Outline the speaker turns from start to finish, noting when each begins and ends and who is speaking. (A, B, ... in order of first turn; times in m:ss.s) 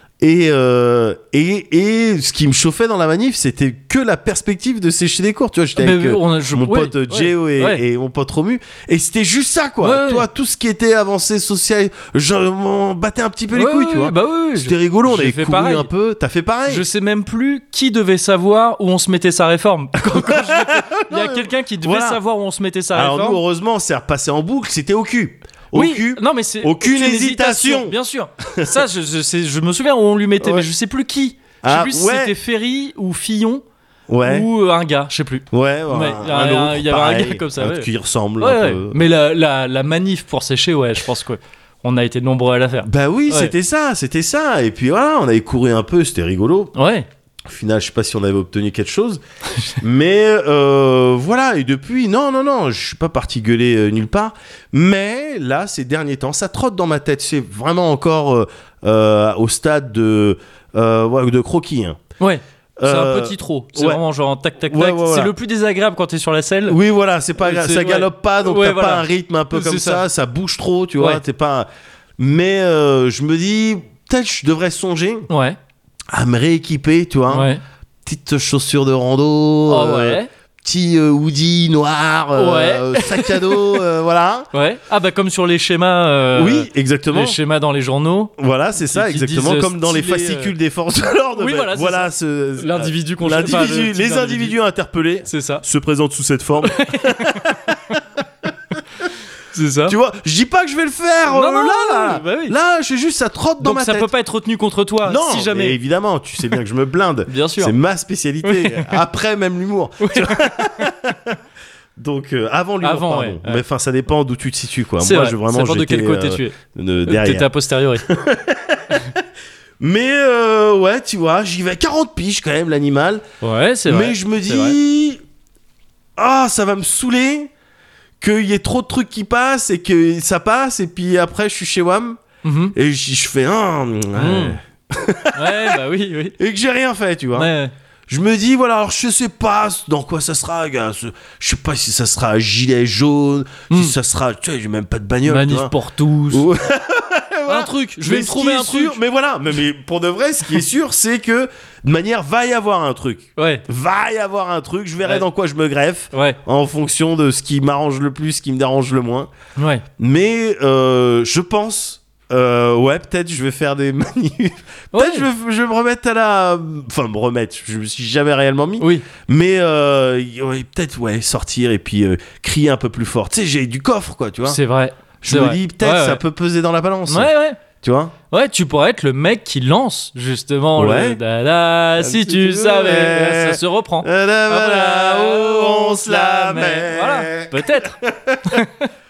0:00.2-0:16.8 A
0:05.8-0:07.8 B
0:09.8-0:10.2 B
0:13.5-0:15.9 B
0:16.7-0:23.4 B
0:20.1-0:22.2 A
0:22.9-0:28.0 A
0:25.7-0:33.6 B
0:28.5-0:28.7 A
0:30.4-0:30.7 A
0:31.6-0:32.4 A
0:34.1-0:34.5 A
0:34.2-0:37.9 B
0:35.5-0:39.0 A
0:38.4-0:43.5 B
0:42.8-0:46.7 A
0:46.8-0:47.1 B
0:47.4-0:49.2 A
0:49.8-1:02.0 A
1:02.2-1:06.8 B
1:02.8-1:04.0 A
1:04.6-1:05.3 A
1:06.7-1:15.3 A
1:07.4-1:10.0 B
1:15.3-1:15.6 B
1:16.1-1:17.5 A
1:17.3-1:17.6 B
1:18.0-1:24.5 A
1:19.7-1:20.3 B
1:22.4-1:23.8 B
1:24.5-1:30.5 B
1:26.3-1:27.4 A
1:28.4-1:38.5 A
1:31.4-1:34.6 B
1:35.2-1:35.6 B
1:36.6-1:37.5 B
1:39.5-1:40.0 B
1:39.9-1:44.1 A
1:41.3-1:42.5 B
1:43.6-1:45.8 B
1:45.0-1:51.4 A
1:47.3-1:47.7 B
1:48.4-1:49.0 B
1:50.0-1:50.8 B
1:52.0-1:59.2 A
1:52.8-1:53.6 B
1:55.0-1:56.5 B
1:57.0-1:58.1 B
1:59.8-2:03.2 A
2:03.4-2:04.8 B
2:03.9-2:05.2 A
2:06.2-2:07.5 A
2:08.2-2:12.2 A
2:12.4-2:12.8 B
2:12.7-2:15.8 A
2:14.1-2:14.6 B
2:15.3-2:16.4 B
2:16.4-2:17.5 A
2:17.4-2:17.7 B
2:18.1-2:25.7 A
2:23.7-2:24.0 B
2:25.2-2:26.5 B
2:26.3-2:39.3 A
2:27.5-2:29.0 B
2:33.4-2:33.6 B
2:36.1-2:36.4 B
2:39.6-2:39.8 B
2:40.0-2:54.6 A
2:44.9-2:45.3 B
2:48.8-2:49.1 B
2:54.5-2:56.2 B
2:55.2-2:58.1 A
2:57.1-2:57.6 B
2:58.3-3:08.9 B
3:00.8-3:01.2 A
3:02.0-3:08.6 A